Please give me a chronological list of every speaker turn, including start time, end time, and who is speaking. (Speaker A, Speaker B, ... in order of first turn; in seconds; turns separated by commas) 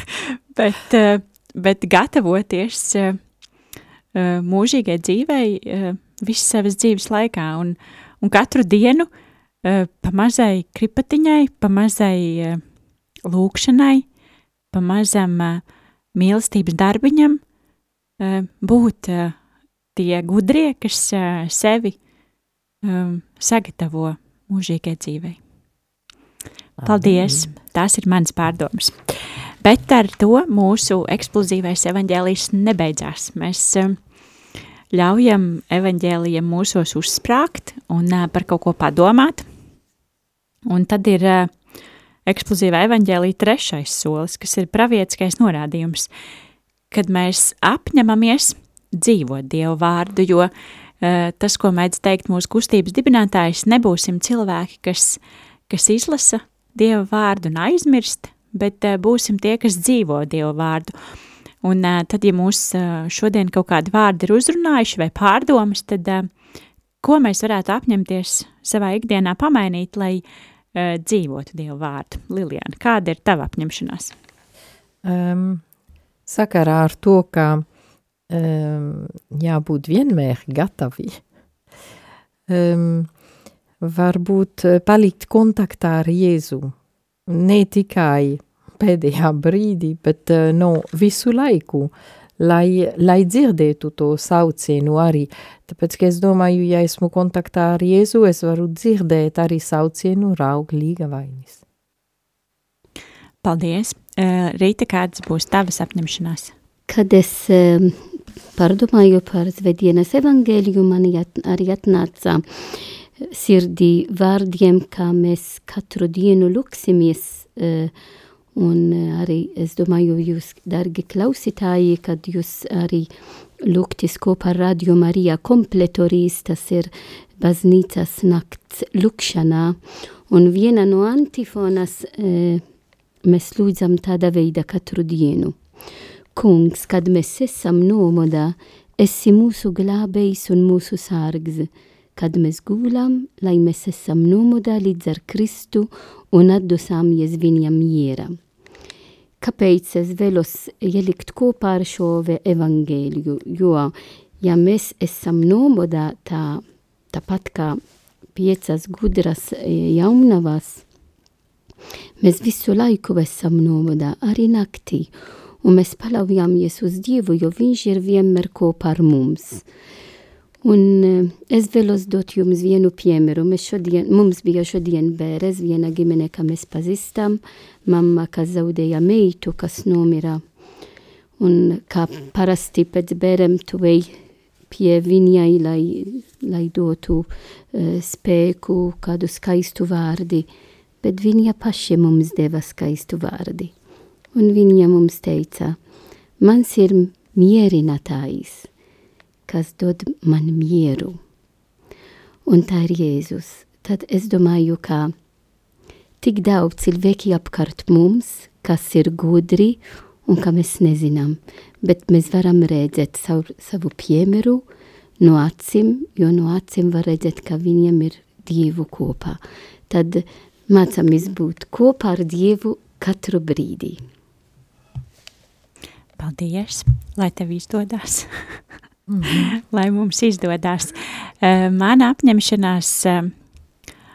Speaker A: 0.6-3.2, Speaker A: 4.1-9.1, Speaker A: 9.6-12.6, Speaker A: 13.2-14.0, Speaker A: 14.7-15.6, Speaker A: 16.1-17.4, Speaker A: 18.2-19.4, Speaker A: 19.9-22.0, Speaker A: 22.8-25.4, Speaker B: 26.8-27.4, Speaker A: 26.8-29.1, Speaker A: 29.6-34.0, Speaker A: 34.9-39.5, Speaker A: 40.7-41.6, Speaker A: 42.2-46.1, Speaker A: 46.9-60.9, Speaker A: 61.6-66.3, Speaker A: 67.0-70.2, Speaker A: 70.7-74.1, Speaker B: 75.0-75.6, Speaker B: 76.2-77.7, Speaker B: 78.3-81.2, Speaker B: 82.5-83.1, Speaker B: 83.8-86.7, Speaker B: 87.3-101.6, Speaker A: 103.4-106.5, Speaker C: 106.9-108.0, Speaker C: 108.5-117.9, Speaker C: 118.5-123.1, Speaker C: 123.6-132.6, Speaker C: 133.2-135.6, Speaker C: 136.3-148.3, Speaker C: 149.4-157.8, Speaker C: 158.3-160.8, Speaker C: 162.2-169.6, Speaker C: 170.6-180.4, Speaker C: 181.4-184.2, Speaker C: 184.7-190.5, Speaker C: 191.0-193.7, Speaker C: 194.3-195.8, Speaker C: 196.4-198.7, Speaker C: 199.5-201.2, Speaker C: 202.4-205.1, Speaker C: 206.2-214.6, Speaker C: 215.2-224.0, Speaker A: 226.2-228.6, Speaker B: 229.1-229.5, Speaker A: 229.3-233.3